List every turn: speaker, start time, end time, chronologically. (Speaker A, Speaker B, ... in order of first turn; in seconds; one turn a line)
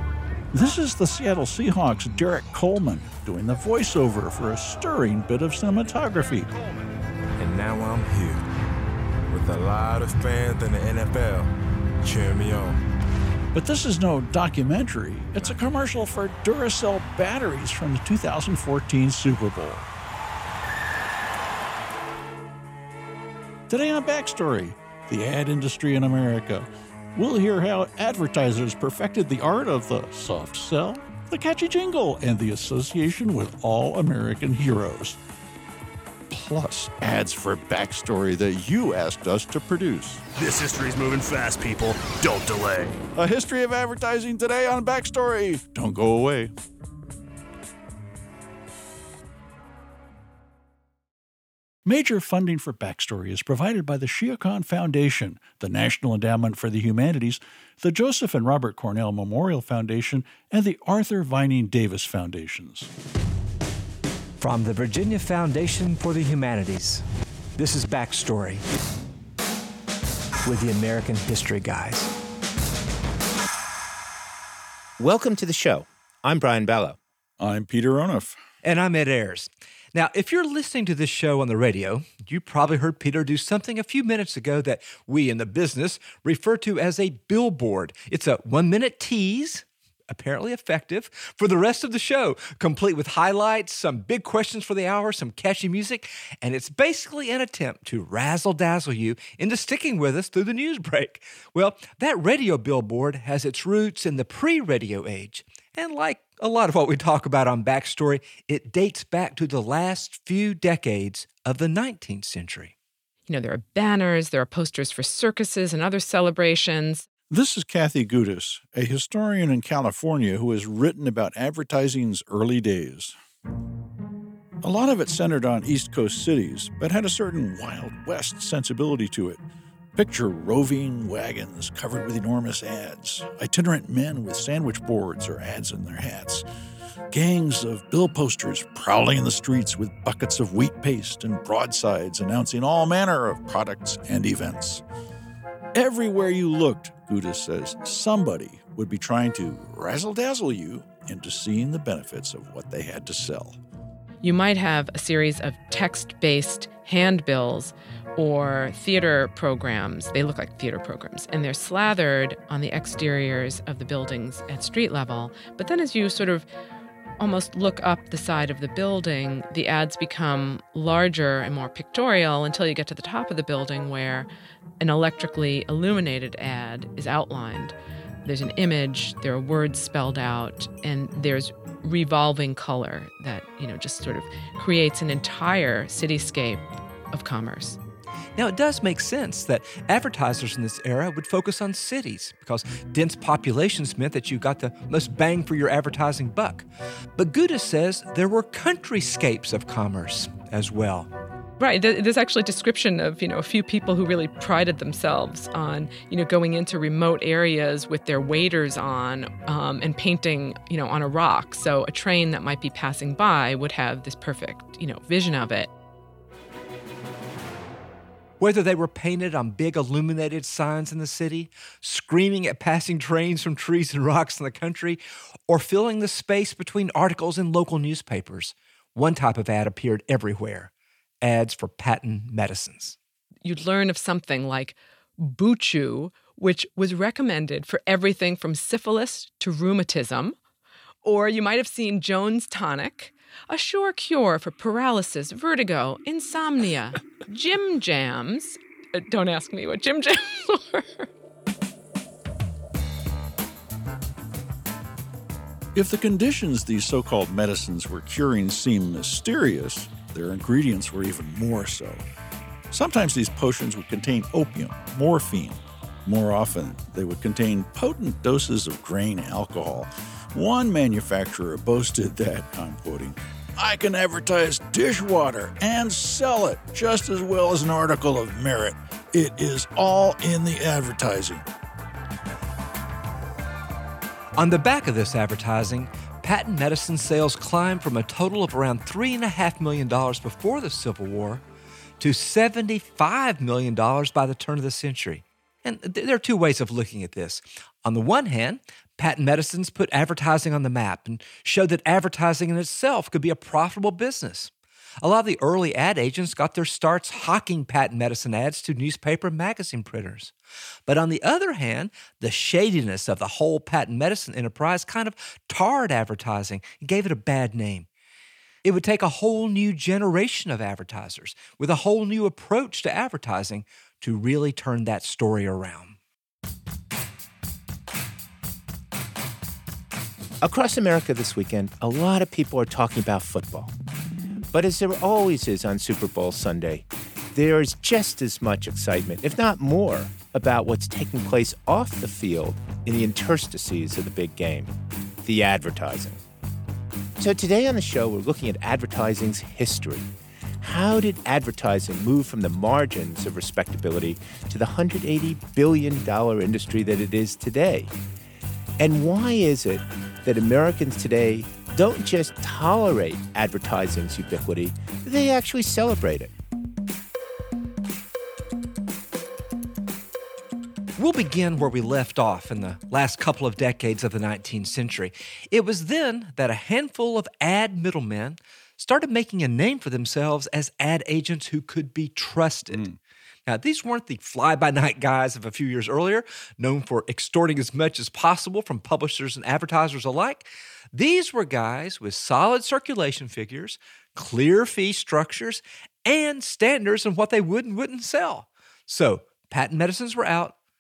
Speaker A: 0.5-6.5
Speaker B: 7.4-8.4
Speaker B: 9.3-11.5
Speaker B: 12.0-12.8
Speaker A: 13.5-19.8
Speaker A: 23.7-35.2
Speaker A: 36.3-40.2
Speaker C: 40.4-43.0
Speaker A: 43.1-46.5
Speaker A: 51.9-62.9
Speaker D: 64.4-67.0
Speaker D: 67.6-68.6
Speaker D: 70.4-72.1
Speaker E: 75.0-77.0
Speaker A: 77.4-78.4
Speaker D: 78.6-112.7
Speaker F: 113.3-117.0
Speaker A: 117.3-123.1
Speaker A: 124.6-129.4
Speaker A: 129.9-136.4
Speaker A: 137.1-144.8
Speaker A: 145.7-153.6
Speaker F: 154.2-166.5
Speaker F: 167.2-174.3
Speaker F: 174.8-187.8
Speaker D: 188.3-201.1
Speaker F: 201.6-215.7
Speaker D: 218.4-230.7
Speaker D: 231.2-232.9
Speaker F: 233.4-240.3
Speaker F: 241.0-251.1
Speaker A: 255.7-262.0
Speaker A: 262.7-281.4
Speaker D: 284.4-291.4
Speaker D: 292.0-304.5
Speaker D: 305.0-310.3
Speaker D: 310.9-317.9
Speaker D: 318.6-325.9
Speaker E: 330.4-333.7
Speaker E: 334.5-346.2
Speaker E: 347.2-350.1
Speaker E: 350.6-357.9
Speaker E: 358.8-366.3
Speaker D: 371.0-382.8
Speaker A: 382.7-383.0
Speaker D: 383.5-400.5